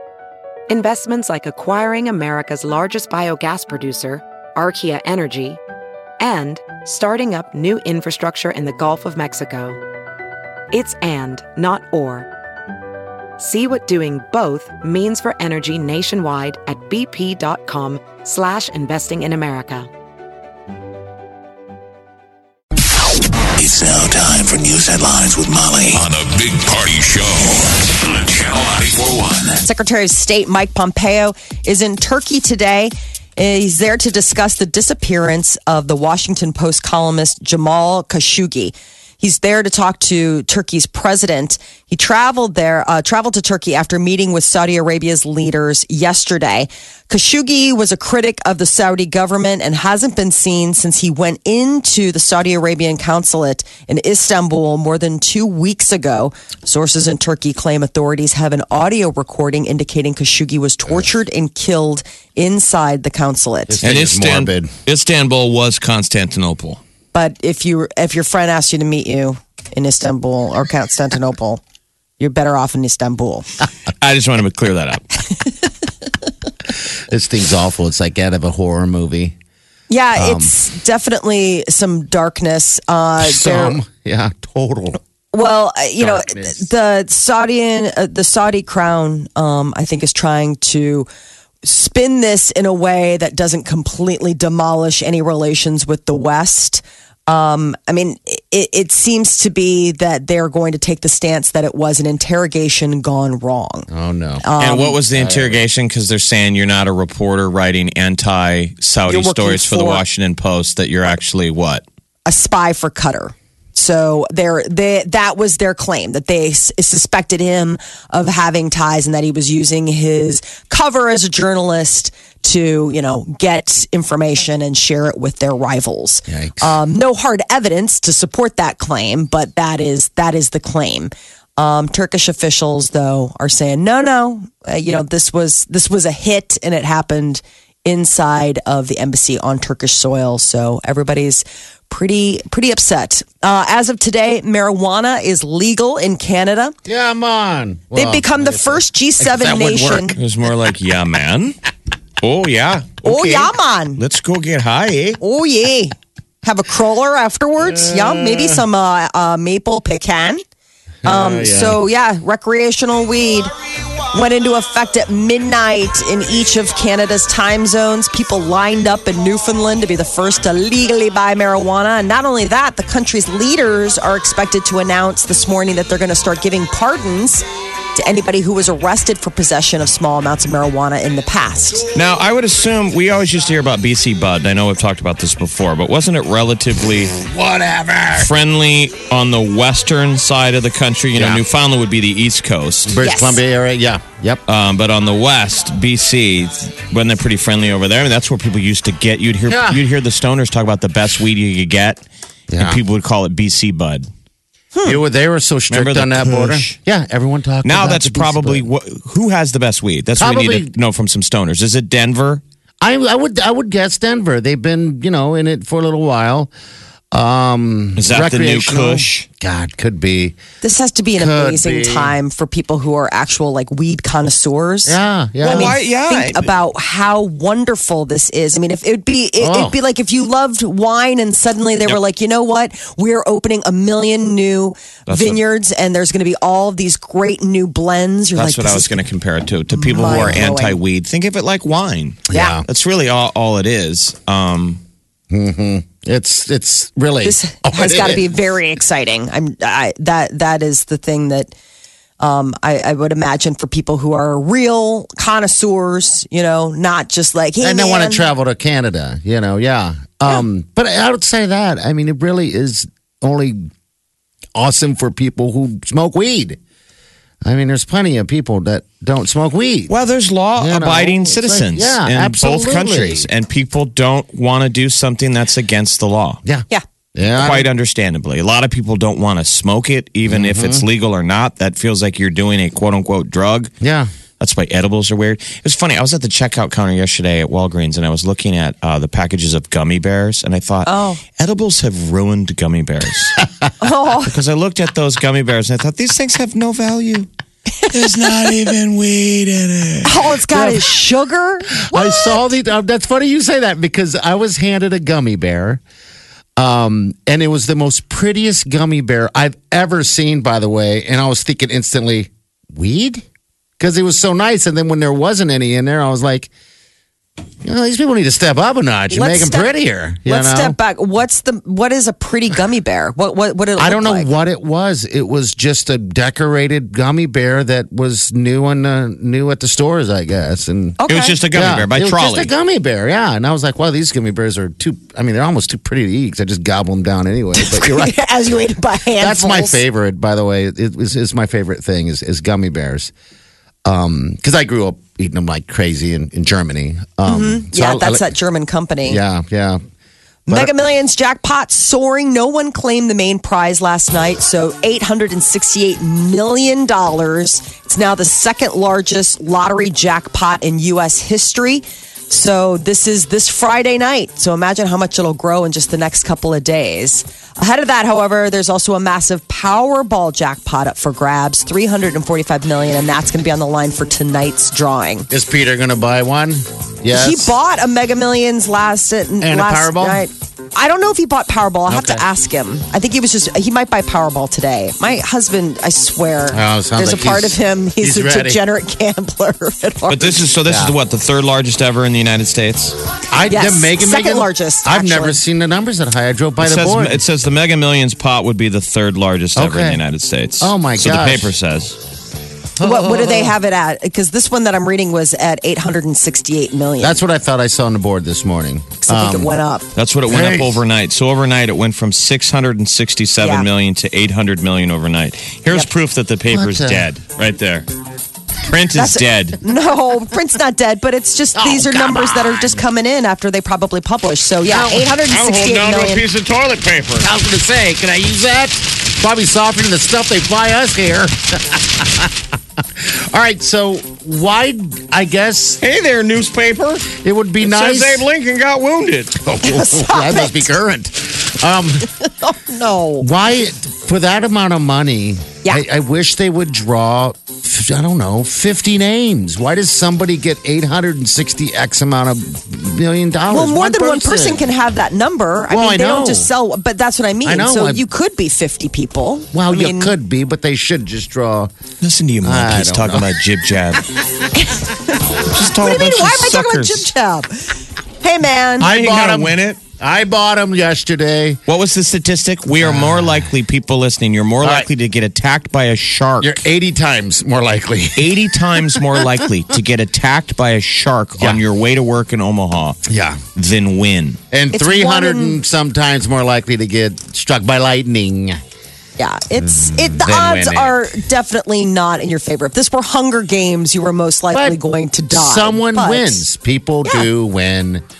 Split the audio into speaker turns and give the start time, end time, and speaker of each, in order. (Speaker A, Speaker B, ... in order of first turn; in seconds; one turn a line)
Speaker A: 0.7-5.6
Speaker A: 6.2-9.8
Speaker A: 10.7-12.3
Speaker A: 13.4-19.9
Speaker B: 23.6-29.6
Speaker C: 29.6-63.8
Speaker D: 63.7-64.7
Speaker E: 63.8-66.8
Speaker C: 67.1-71.6
Speaker C: 72.2-73.5
Speaker E: 74.0-75.4
Speaker D: 77.1-79.4
Speaker C: 79.9-83.8
Speaker D: 80.2-80.5
Speaker D: 83.2-85.0
Speaker C: 85.3-91.1
Speaker D: 86.0-86.6
Speaker C: 91.6-103.9
Speaker D: 103.9-104.5
Speaker C: 104.4-105.0
Speaker E: 104.6-111.8
Speaker D: 105.1-105.6
Speaker C: 109.1-110.0
Speaker C: 112.3-146.8
Speaker D: 126.3-126.8
Speaker D: 146.9-150.2
Speaker C: 147.9-150.2
Speaker E: 150.2-151.6
Speaker E: 152.2-155.2
Speaker C: 153.0-154.0
Speaker C: 155.2-160.4
Speaker D: 157.6-158.6
Speaker D: 161.0-161.8
Speaker C: 161.0-163.5
Speaker C: 164.1-181.9
Speaker E: 181.9-187.2
Speaker D: 187.2-188.3
Speaker E: 188.2-193.0
Speaker D: 191.2-191.4
Speaker D: 192.9-194.4
Speaker C: 193.0-193.4
Speaker E: 194.5-202.0
Speaker D: 199.5-199.8
Speaker D: 202.5-202.8
Speaker E: 202.6-204.1
Speaker C: 204.8-205.0
Speaker D: 204.8-208.7
Speaker E: 205.7-206.8
Speaker E: 207.6-212.4
Speaker D: 210.2-210.7
Speaker D: 212.8-216.5
Speaker D: 217.1-220.4
Speaker E: 218.0-219.3
Speaker C: 220.6-238.9
Speaker D: 221.2-222.2
Speaker D: 224.9-225.8
Speaker E: 225.4-226.5
Speaker D: 229.4-229.8
Speaker E: 235.1-235.4
Speaker E: 238.3-244.8
Speaker C: 239.7-240.8
Speaker D: 242.3-242.7
Speaker C: 242.3-242.6
Speaker D: 245.3-248.3
Speaker C: 247.2-251.5
Speaker C: 252.2-258.3
Speaker D: 257.6-263.7
Speaker D: 264.6-266.6
Speaker D: 267.4-269.9
Speaker E: 269.9-276.4
Speaker D: 270.6-273.3
Speaker D: 276.4-277.7
Speaker E: 277.3-283.7
Speaker D: 280.2-280.9
Speaker D: 283.8-284.1
Speaker E: 284.4-293.4
Speaker C: 290.9-291.2
Speaker C: 293.8-294.4
Speaker E: 294.2-297.3
Speaker E: 297.9-300.2
Speaker C: 300.1-302.4
Speaker D: 301.9-305.8
Speaker D: 306.6-313.2
Speaker D: 313.8-316.5
Speaker D: 317.6-320.8
Speaker C: 319.1-319.7
Speaker C: 320.2-324.3
Speaker D: 323.8-331.0
Speaker C: 331.0-331.4
Speaker E: 331.1-332.5
Speaker D: 331.5-338.2
Speaker C: 337.6-339.8
Speaker D: 339.2-343.1
Speaker D: 343.9-348.3
Speaker C: 347.3-349.2
Speaker D: 349.1-349.8
Speaker C: 350.5-375.3
Speaker D: 375.3-377.5
Speaker C: 377.1-390.4
Speaker D: 379.4-380.3
Speaker D: 381.9-382.2
Speaker D: 386.5-388.6
Speaker E: 390.1-393.0
Speaker D: 390.7-390.9
Speaker D: 393.3-397.2
Speaker C: 393.5-395.4
Speaker E: 396.6-402.0
Speaker D: 399.6-400.0
Speaker D: 400.6-401.5
Speaker D: 402.8-403.6
Speaker C: 402.8-407.2
Speaker D: 407.0-409.5
Speaker C: 409.0-409.9
Speaker E: 410.0-417.9
Speaker D: 410.3-410.8
Speaker C: 413.4-413.7
Speaker D: 416.5-417.1
Speaker E: 418.6-419.6
Speaker C: 419.0-426.3
Speaker D: 421.6-422.8
Speaker D: 424.7-425.1
Speaker E: 425.3-427.3
Speaker D: 427.2-435.8
Speaker E: 435.8-439.4
Speaker D: 437.1-438.3
Speaker D: 439.3-442.1
Speaker C: 439.6-440.7
Speaker C: 442.2-443.3
Speaker D: 443.2-454.7
Speaker C: 453.5-460.1
Speaker D: 455.7-456.5
Speaker D: 457.4-458.1
Speaker D: 459.5-461.7
Speaker E: 462.0-464.1
Speaker D: 462.4-463.4
Speaker C: 464.6-468.9
Speaker E: 465.4-467.1
Speaker D: 468.8-471.6
Speaker E: 468.8-469.8
Speaker E: 471.7-476.6
Speaker D: 472.8-473.5
Speaker D: 474.6-474.9
Speaker D: 476.4-479.5
Speaker E: 478.2-483.0
Speaker D: 481.4-481.6
Speaker D: 483.1-483.4
Speaker E: 483.6-484.4
Speaker D: 484.5-488.6
Speaker C: 484.7-485.6
Speaker C: 489.2-496.4
Speaker D: 489.8-491.2
Speaker D: 494.5-494.8
Speaker D: 495.3-498.0